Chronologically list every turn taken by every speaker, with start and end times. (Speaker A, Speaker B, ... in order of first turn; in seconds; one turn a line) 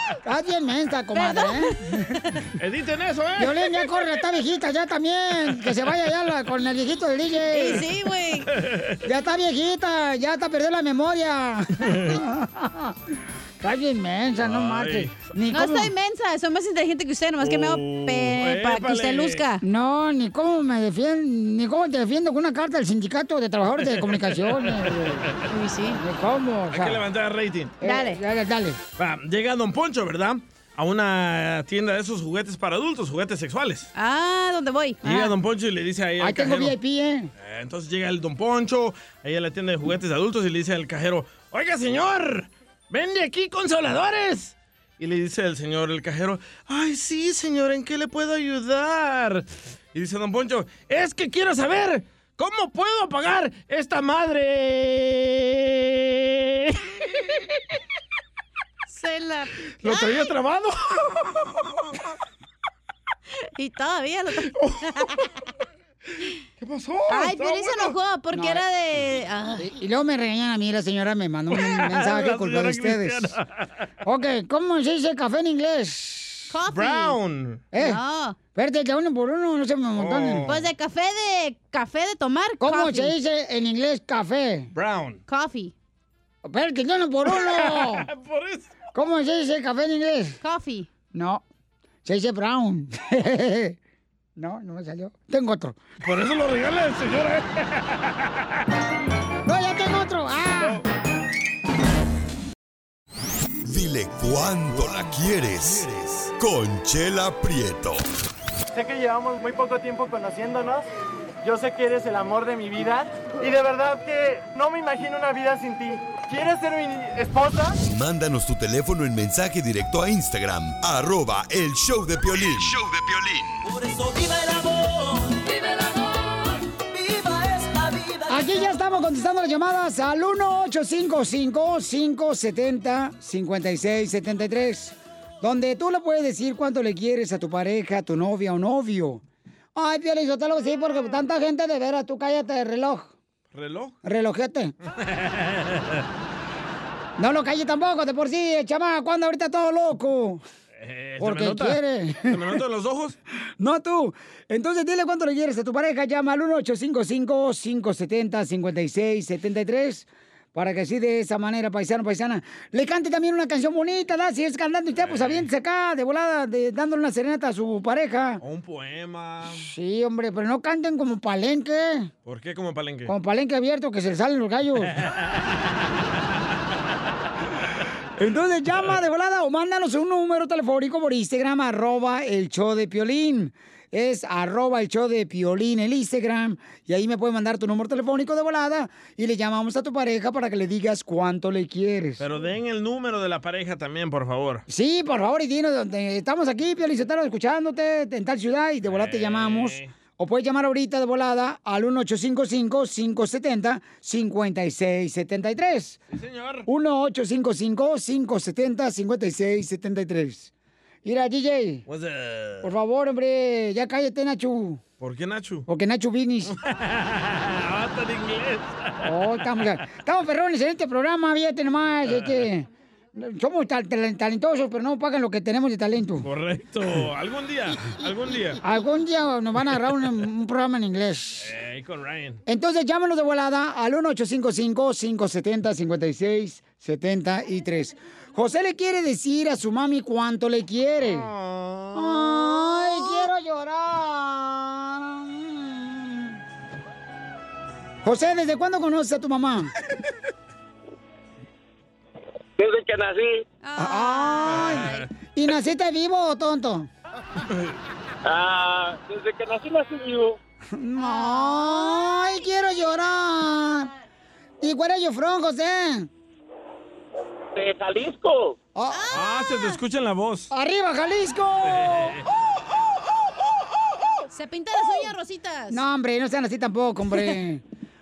Speaker A: 0.2-2.1
Speaker B: 1.1-1.9
Speaker C: 2.6-3.6
Speaker A: 3.4-7.8
Speaker B: 7.5-8.5
Speaker C: 8.5-9.0
Speaker A: 9.0-15.9
Speaker C: 11.8-12.1
Speaker C: 14.4-15.1
Speaker B: 15.5-19.6
Speaker C: 17.4-19.4
Speaker A: 19.6-25.2
Speaker C: 23.8-25.4
Speaker B: 25.5-26.0
Speaker A: 25.9-27.0
Speaker C: 26.7-27.7
Speaker A: 27.8-28.8
Speaker B: 27.8-28.2
Speaker C: 29.0-33.9
Speaker B: 33.9-35.3
Speaker C: 35.0-36.7
Speaker A: 36.2-37.3
Speaker C: 37.4-56.8
Speaker B: 58.9-60.3
Speaker C: 59.8-61.4
Speaker B: 63.6-65.2
Speaker C: 64.5-64.8
Speaker C: 66.6-67.9
Speaker B: 67.1-69.7
Speaker A: 68.3-68.6
Speaker A: 69.6-73.3
Speaker C: 71.5-73.8
Speaker A: 74.0-76.5
Speaker B: 76.5-77.2
Speaker C: 76.7-77.6
Speaker A: 77.7-78.0
Speaker B: 77.7-78.4
Speaker A: 78.5-80.5
Speaker C: 80.0-80.6
Speaker B: 80.5-83.1
Speaker A: 82.6-84.7
Speaker C: 84.7-85.2
Speaker B: 85.3-85.7
Speaker A: 86.4-88.0
Speaker C: 87.3-88.7
Speaker A: 88.9-90.4
Speaker B: 90.4-90.9
Speaker A: 91.1-91.4
Speaker A: 92.0-93.8
Speaker A: 94.4-95.8
Speaker C: 96.0-98.1
Speaker A: 99.4-100.8
Speaker D: 103.6-108.0
Speaker E: 108.7-110.8
Speaker E: 111.4-117.8
Speaker D: 117.8-123.6
Speaker F: 124.0-124.9
Speaker F: 127.2-128.2
Speaker A: 128.3-139.2
Speaker A: 139.7-143.1
Speaker C: 143.5-143.9
Speaker A: 144.0-144.7
Speaker C: 145.0-146.0
Speaker A: 147.2-150.4
Speaker C: 150.8-153.2
Speaker A: 151.2-152.4
Speaker A: 153.6-168.4
Speaker C: 165.0-165.5
Speaker C: 168.4-169.6
Speaker A: 169.5-172.1
Speaker C: 172.2-173.1
Speaker A: 173.1-174.9
Speaker A: 178.2-192.3
Speaker C: 192.2-194.6
Speaker A: 194.7-206.0
Speaker C: 198.8-199.9
Speaker C: 206.1-206.7
Speaker A: 206.7-210.5
Speaker A: 211.0-211.8
Speaker C: 211.9-212.7
Speaker A: 212.6-214.8
Speaker C: 215.0-215.7
Speaker A: 215.7-216.5
Speaker C: 216.5-219.1
Speaker A: 219.0-226.3
Speaker C: 226.2-228.6
Speaker A: 228.6-231.5
Speaker C: 231.4-232.4
Speaker A: 232.4-241.3
Speaker C: 241.0-242.7
Speaker A: 241.9-246.4
Speaker A: 248.0-249.7
Speaker G: 252.6-253.3
Speaker B: 253.6-255.1
Speaker A: 253.8-256.9
Speaker C: 254.5-254.9
Speaker G: 258.2-260.4
Speaker A: 260.7-263.9
Speaker B: 261.0-261.9
Speaker A: 264.6-266.1
Speaker G: 267.6-268.5
Speaker A: 268.7-269.1
Speaker B: 268.9-269.8
Speaker C: 269.1-270.5
Speaker A: 270.5-272.2
Speaker C: 271.7-272.2
Speaker B: 274.3-275.8
Speaker A: 275.7-277.6